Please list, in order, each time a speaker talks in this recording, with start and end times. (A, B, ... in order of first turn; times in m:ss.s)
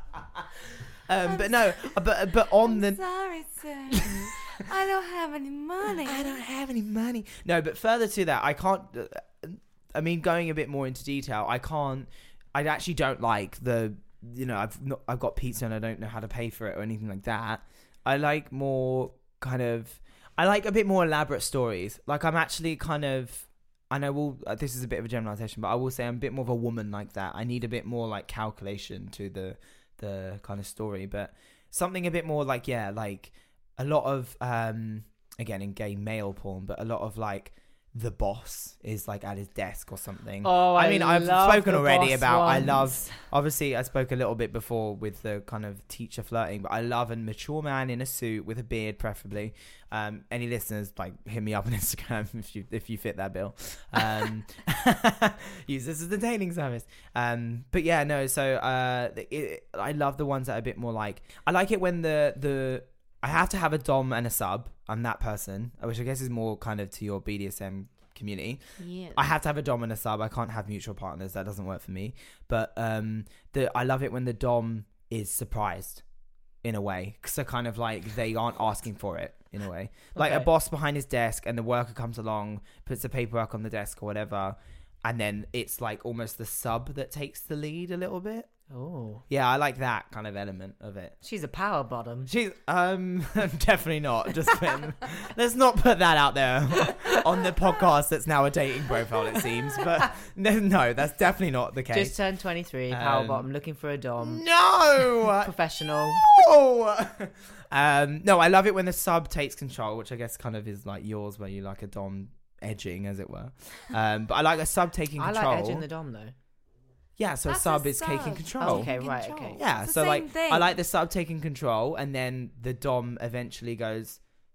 0:01.1-0:03.0 A
0:01.2-0:06.4 B
0:03.9-0:04.3 A
0:06.0-1:16.0 A
0:40.4-0:43.2 C
1:08.8-1:09.2 B
1:16.6-1:28.5 A
1:20.2-1:20.5 C
1:28.7-1:29.2 C
1:29.3-1:31.2 A
1:31.2-1:32.3 C
1:32.3-1:42.2 A
1:41.9-1:44.4 C
1:42.9-1:43.5 A
1:44.2-1:45.5 A
1:45.1-1:46.2 C
1:46.1-1:55.8 A
1:55.2-1:56.3 C
1:57.2-1:58.9 A
1:57.5-2:00.8 B
1:58.6-1:59.6 C
1:59.6-2:04.2 A